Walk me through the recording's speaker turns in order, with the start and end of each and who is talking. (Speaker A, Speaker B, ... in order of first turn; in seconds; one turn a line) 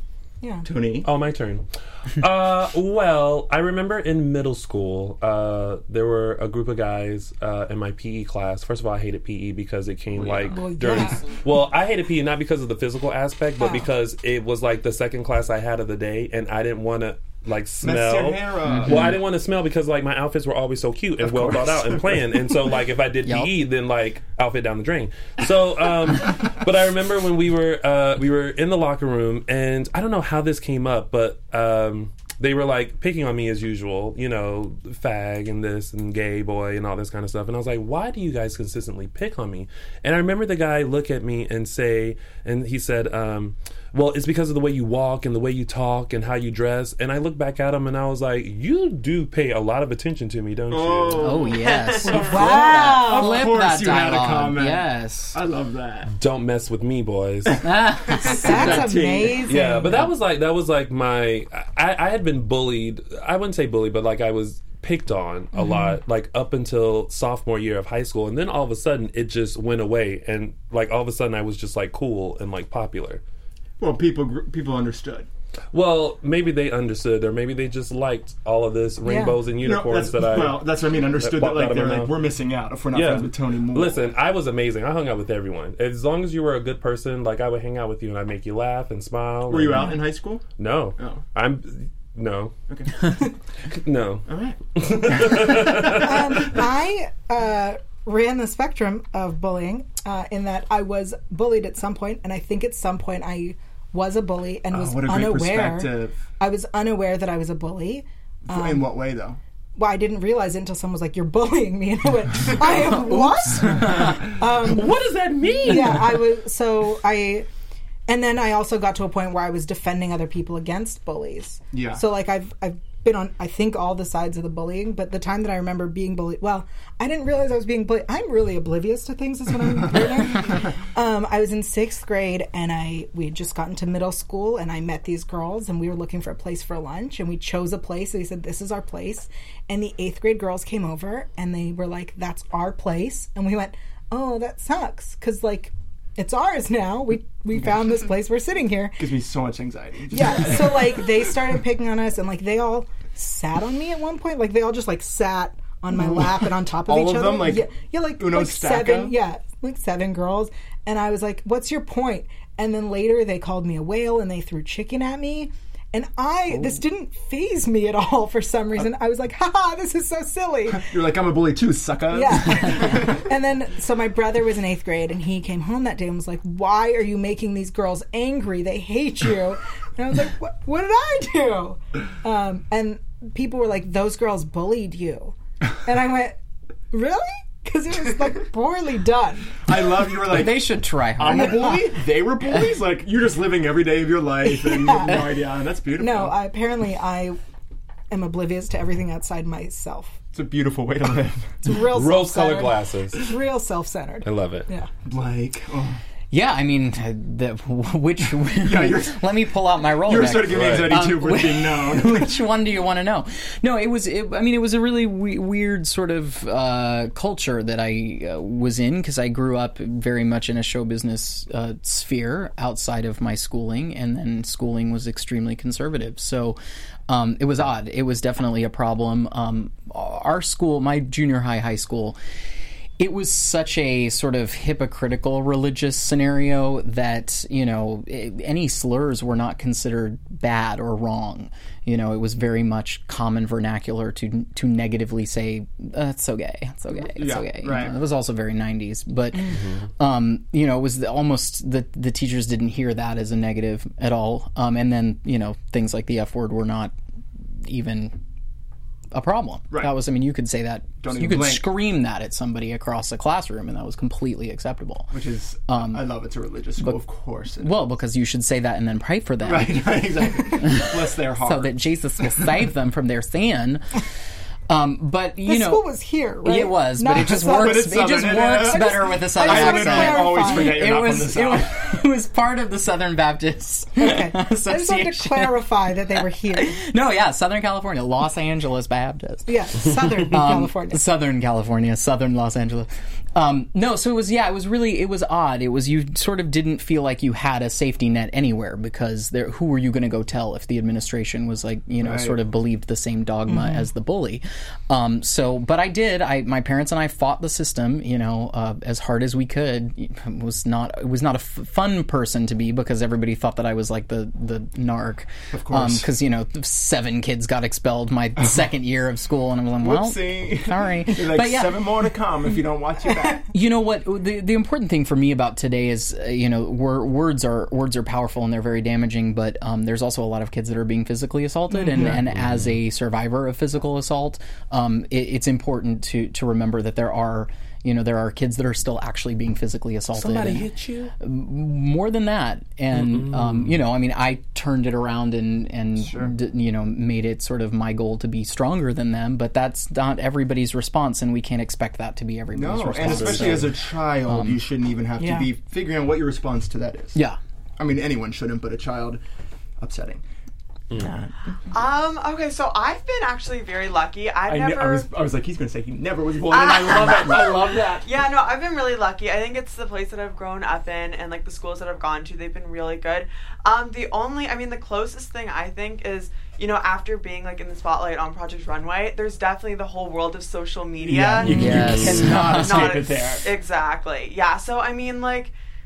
Speaker A: 0.4-0.7
Speaker B: 0.6-1.1
Speaker C: 1.0-51.4
Speaker B: 10.2-10.5
Speaker A: 10.5-11.2
Speaker A: 13.6-13.9
Speaker B: 17.8-19.2
Speaker D: 18.7-19.1
Speaker B: 21.2-22.4
Speaker D: 23.2-23.5
Speaker B: 50.7-56.1
Speaker D: 51.1-55.4
Speaker E: 51.5-52.3
Speaker A: 52.0-53.6
Speaker C: 56.1-57.6
Speaker B: 57.5-59.4
Speaker D: 57.6-59.0
Speaker A: 58.2-60.1
Speaker C: 59.5-73.2
Speaker A: 65.6-65.9
Speaker B: 73.8-75.3
Speaker C: 75.7-82.1
Speaker A: 79.0-79.4
Speaker B: 79.6-84.0
Speaker C: 82.9-90.0
Speaker B: 89.5-90.4
Speaker C: 90.6-92.5
Speaker B: 92.7-93.1
Speaker C: 93.7-96.2
Speaker B: 94.3-96.5
Speaker A: 95.9-108.8
Speaker B: 104.7-106.2
Speaker B: 108.5-109.4
Speaker A: 109.8-114.9
Speaker D: 112.8-114.2
Speaker C: 114.6-116.2
Speaker A: 115.6-117.5
Speaker A: 118.1-149.0
Speaker B: 121.7-122.0
Speaker B: 149.0-151.1
Speaker A: 150.1-170.9
Speaker B: 155.9-156.3
Speaker B: 156.8-159.2
Speaker B: 170.7-173.2
Speaker A: 172.1-186.3
Speaker A: 186.9-189.6
Speaker B: 189.6-196.3
Speaker D: 190.2-191.9
Speaker A: 194.4-195.2
Speaker A: 196.0-197.4
Speaker A: 198.1-200.2
Speaker B: 200.3-201.8
Speaker A: 201.6-204.9
Speaker C: 201.9-203.2
Speaker C: 204.2-204.7
Speaker B: 205.1-206.0
Speaker D: 206.3-226.6
Speaker B: 208.6-209.3
Speaker B: 209.9-212.3
Speaker C: 210.5-210.9
Speaker D: 227.1-232.2
Speaker D: 233.0-256.9
Speaker B: 247.0-247.9
Speaker C: 249.5-249.9
Speaker D: 257.6-258.1
Speaker D: 259.1-265.1
Speaker B: 261.0-261.8
Speaker B: 265.1-267.8
Speaker D: 265.7-266.0
Speaker D: 267.6-274.0
Speaker B: 269.4-271.7
Speaker D: 274.7-275.9
Speaker A: 275.4-280.9
Speaker D: 276.4-322.1
Speaker B: 277.4-281.9
Speaker A: 284.0-286.8
Speaker A: 289.5-291.0
Speaker B: 302.0-302.4
Speaker A: 303.5-303.8
Speaker B: 315.5-316.1
Speaker B: 319.8-323.4
Speaker D: 323.5-354.6
Speaker C: 332.0-332.7
Speaker C: 340.1-341.1
Speaker C: 342.9-343.7
Speaker B: 346.0-346.3
Speaker B: 352.5-357.2
Speaker C: 353.0-353.6
Speaker A: 355.2-355.5
Speaker B: 357.8-359.2
Speaker B: 359.8-360.2
Speaker B: 360.9-361.6
Speaker E: 361.7-365.1
Speaker B: 364.5-368.1
Speaker E: 366.5-385.5
Speaker B: 381.0-383.5
Speaker C: 381.4-382.3
Speaker D: 381.4-383.0